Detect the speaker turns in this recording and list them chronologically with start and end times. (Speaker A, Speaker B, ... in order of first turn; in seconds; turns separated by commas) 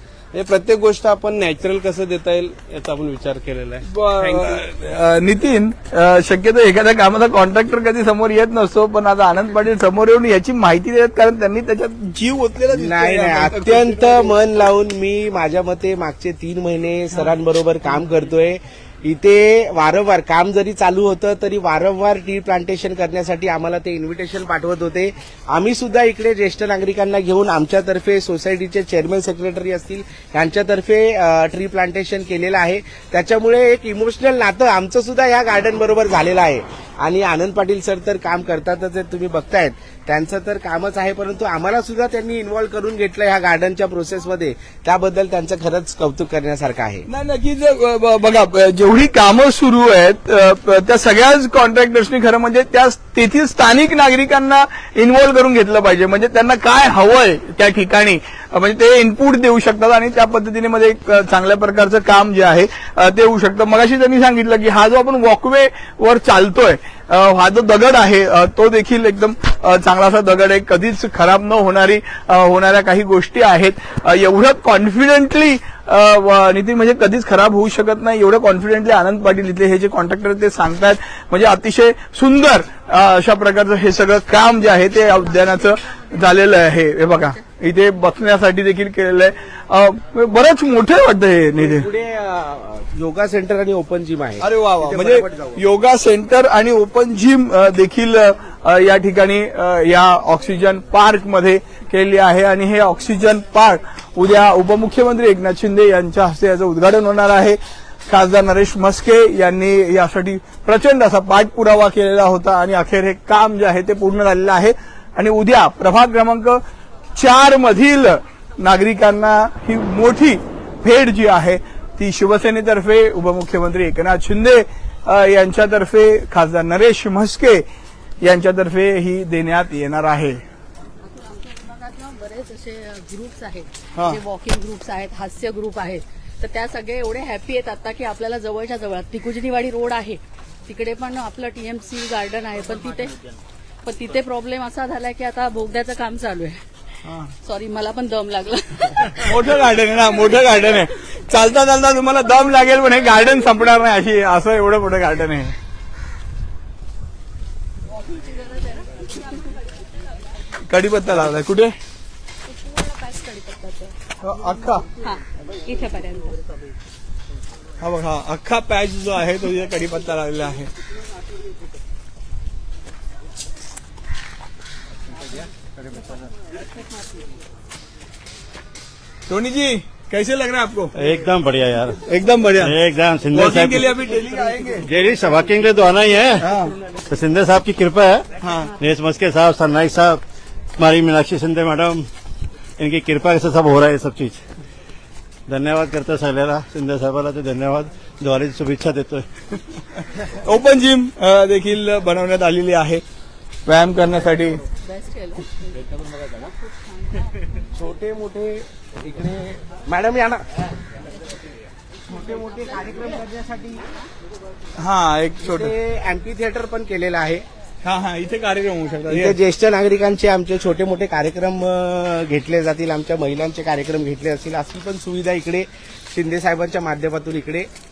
Speaker A: 0.3-4.6, Speaker B: 3.9-14.3, Speaker C: 12.7-47.1, Speaker B: 47.1-91.9, Speaker C: 91.5-95.6, Speaker B: 94.4-116.6, Speaker B: 117.2-127.6, Speaker B: 128.2-130.4, Speaker D: 131.0-143.2, Speaker D: 143.8-146.6, Speaker B: 147.0-147.3, Speaker D: 147.4-149.3, Speaker B: 149.2-155.6, Speaker B: 160.7-161.7, Speaker E: 162.5-163.9, Speaker B: 164.2-164.8, Speaker E: 165.0-166.4, Speaker B: 167.8-170.7, Speaker B: 179.3-180.9, Speaker F: 180.9-182.0, Speaker B: 182.1-182.7, Speaker F: 182.6-183.9, Speaker B: 183.3-184.9, Speaker F: 184.8-186.5, Speaker B: 186.4-186.7, Speaker F: 187.1-188.2, Speaker B: 188.4-188.7, Speaker F: 188.8-190.2, Speaker F: 190.8-192.1, Speaker F: 192.8-194.4, Speaker F: 195.5-199.3, Speaker B: 200.4-203.0, Speaker B: 203.7-204.6, Speaker D: 204.8-205.5, Speaker C: 207.7-210.4, Speaker C: 212.1-213.8, Speaker B: 214.8-215.7, Speaker C: 215.4-217.4, Speaker B: 217.8-219.4, Speaker C: 219.1-227.7